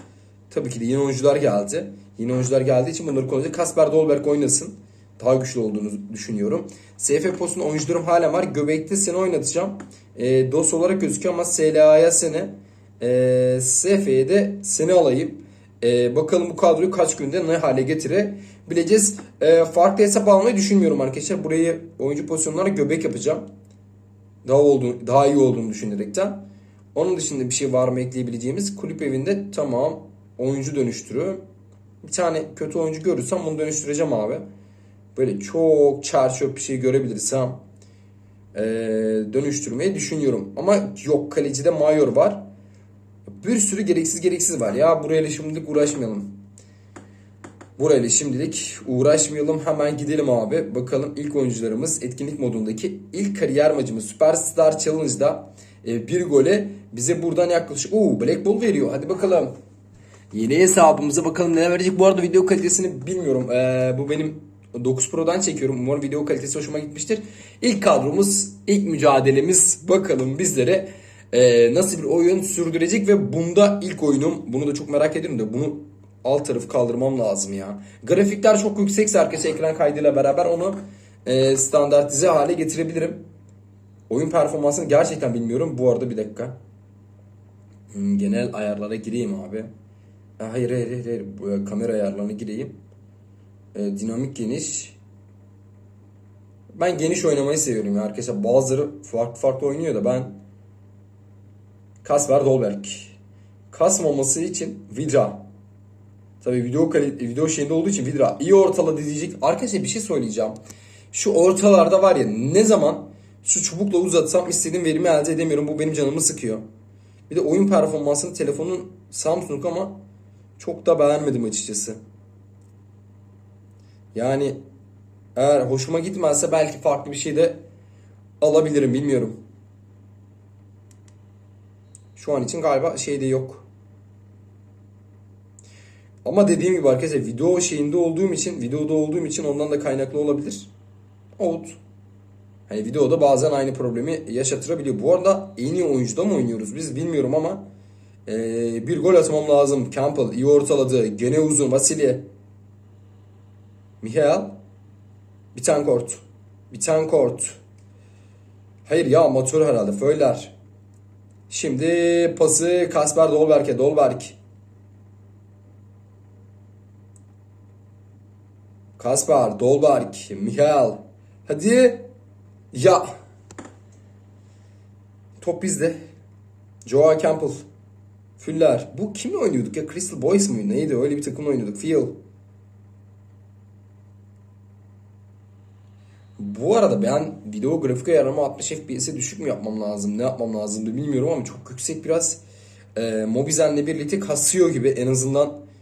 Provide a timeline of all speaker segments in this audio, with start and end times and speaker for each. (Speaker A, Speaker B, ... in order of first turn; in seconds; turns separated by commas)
Speaker A: 0.5-23.4, Speaker A: 24.4-26.4, Speaker A: 26.9-31.4, Speaker A: 32.0-34.4, Speaker A: 35.1-37.6, Speaker A: 38.5-42.4, Speaker A: 43.3-46.3, Speaker A: 47.8-59.5, Speaker A: 60.3-83.2, Speaker A: 84.1-86.5, Speaker A: 87.9-89.7, Speaker A: 90.4-92.7, Speaker A: 93.7-95.0, Speaker A: 96.7-100.3, Speaker A: 102.0-103.2, Speaker A: 103.7-105.4, Speaker A: 106.4-110.5, Speaker A: 111.1-116.6, Speaker A: 117.3-120.0, Speaker A: 120.6-122.0, Speaker A: 124.1-124.6, Speaker A: 125.3-127.6, Speaker A: 128.4-129.4, Speaker A: 132.2-133.7, Speaker A: 136.2-140.7, Speaker A: 141.4-141.8, Speaker A: 142.7-147.6, Speaker A: 148.2-152.2, Speaker A: 154.0-154.6, Speaker A: 155.5-157.6, Speaker A: 158.8-160.5, Speaker A: 161.5-164.4, Speaker A: 169.0-172.1, Speaker A: 172.7-173.1, Speaker A: 175.4-176.0, Speaker A: 176.8-177.6, Speaker A: 178.4-182.1, Speaker A: 186.4-192.4, Speaker A: 192.9-195.6